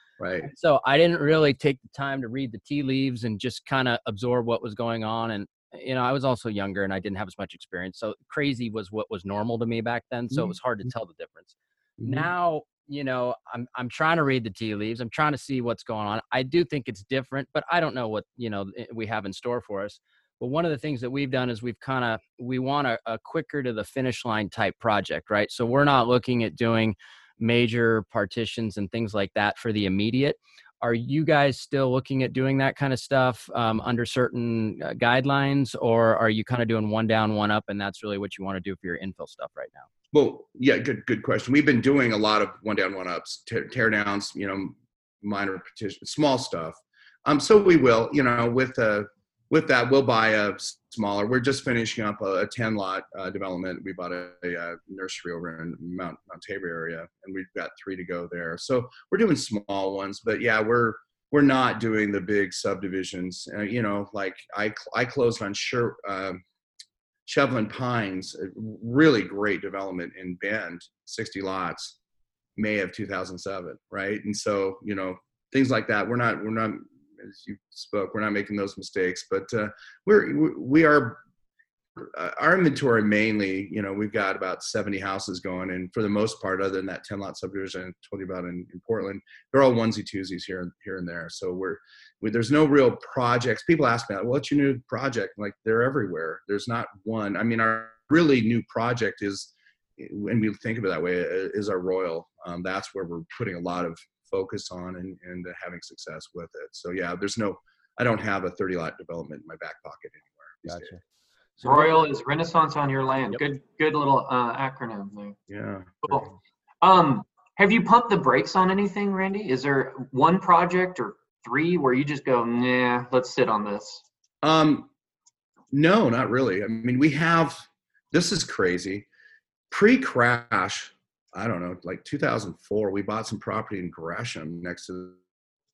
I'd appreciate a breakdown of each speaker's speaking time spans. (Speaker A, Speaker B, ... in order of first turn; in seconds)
Speaker A: 0.2-0.5, 12.0-12.3, 40.1-66.4, 67.2-72.0, 72.6-81.2, 82.0-111.0, 115.5-116.3, 124.4-124.9, 125.7-129.1, 129.7-135.2
Speaker B: 0.4-39.9, 110.7-111.0, 111.6-112.0
Speaker C: 111.6-115.4, 116.8-124.0